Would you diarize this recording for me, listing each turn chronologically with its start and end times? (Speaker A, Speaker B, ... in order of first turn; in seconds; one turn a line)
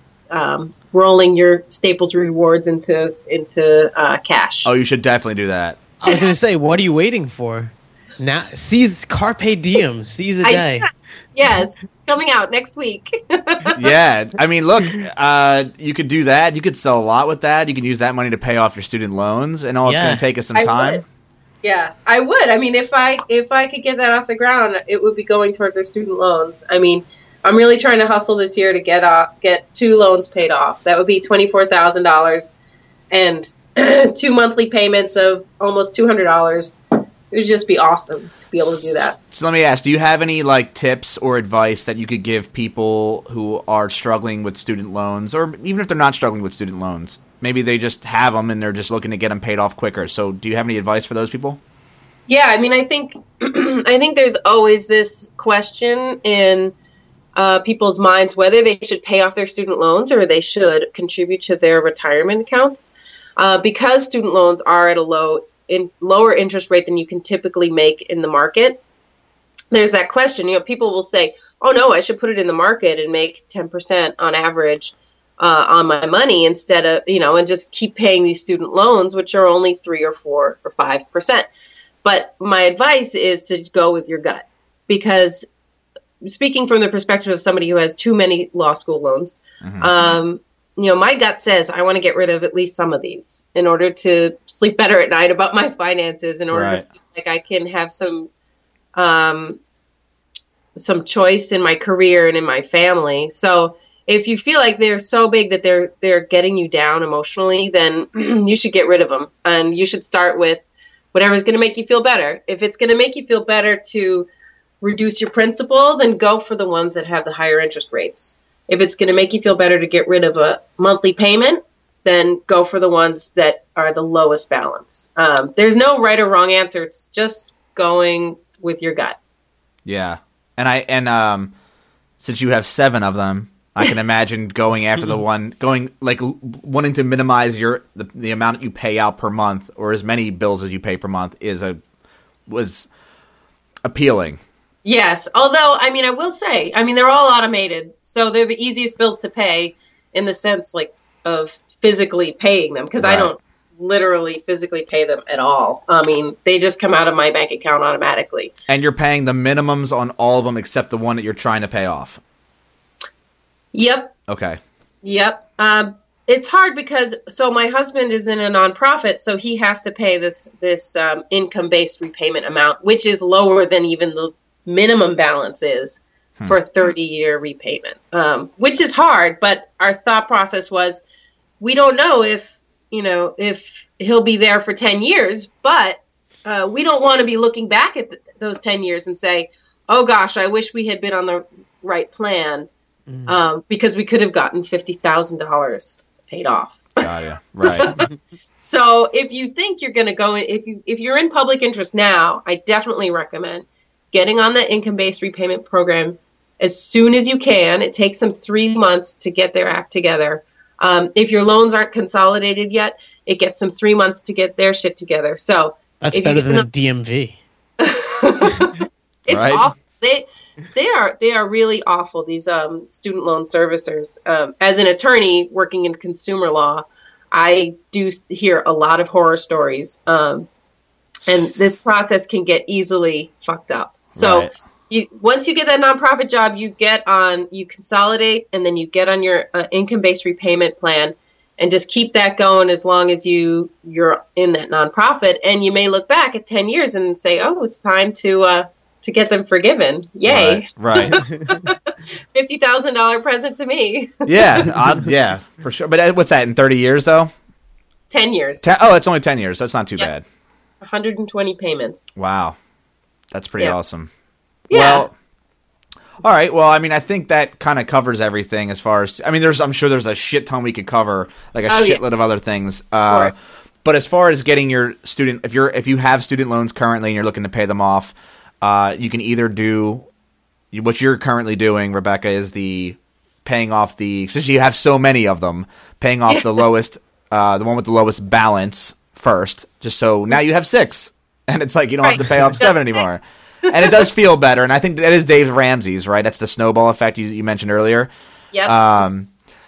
Speaker A: 0.3-4.7
Speaker B: 4.6-5.8
Speaker C: 6.0-10.9
Speaker A: 10.4-13.8
Speaker B: 13.7-21.0
Speaker C: 19.8-20.2
Speaker A: 20.5-21.0
Speaker A: 21.6-32.5
Speaker A: 33.1-36.8
Speaker A: 37.3-39.2
Speaker B: 39.3-51.6
Speaker A: 52.3-56.7
Speaker A: 57.3-68.8
Speaker A: 69.7-81.5
Speaker A: 82.0-85.5
Speaker A: 86.2-98.3
Speaker B: 89.6-89.9
Speaker B: 96.5-96.8
Speaker A: 98.9-99.6
Speaker A: 100.7-114.3
Speaker A: 114.8-129.2
Speaker B: 129.8-131.5
Speaker B: 132.2-141.8
Speaker B: 142.5-142.9
Speaker B: 143.8-144.4
Speaker A: 144.8-158.5
Speaker B: 153.0-153.3
Speaker B: 158.7-162.2
Speaker A: 163.7-164.1
Speaker B: 164.3-164.6
Speaker A: 165.0-181.0
Speaker A: 181.6-192.7
Speaker C: 193.1-193.3
Speaker A: 193.2-197.0
Speaker B: 197.0-197.9
Speaker A: 197.7-198.0
Speaker A: 198.6-216.7
Speaker C: 216.0-217.4
Speaker A: 217.8-230.5
Speaker B: 219.3-219.6
Speaker A: 231.2-254.8
Speaker B: 234.1-234.5
Speaker B: 250.2-251.2
Speaker C: 251.1-251.5
Speaker B: 254.3-257.3
Speaker A: 258.1-258.7
Speaker B: 258.6-260.2
Speaker A: 260.8-262.1
Speaker B: 262.1-262.6
Speaker B: 263.3-264.1
Speaker A: 264.7-265.1
Speaker B: 264.7-265.1
Speaker B: 266.2-273.3
Speaker A: 271.7-272.0
Speaker B: 273.8-280.1
Speaker B: 280.7-298.1
Speaker A: 292.0-293.0
Speaker A: 293.7-294.0
Speaker B: 298.6-299.3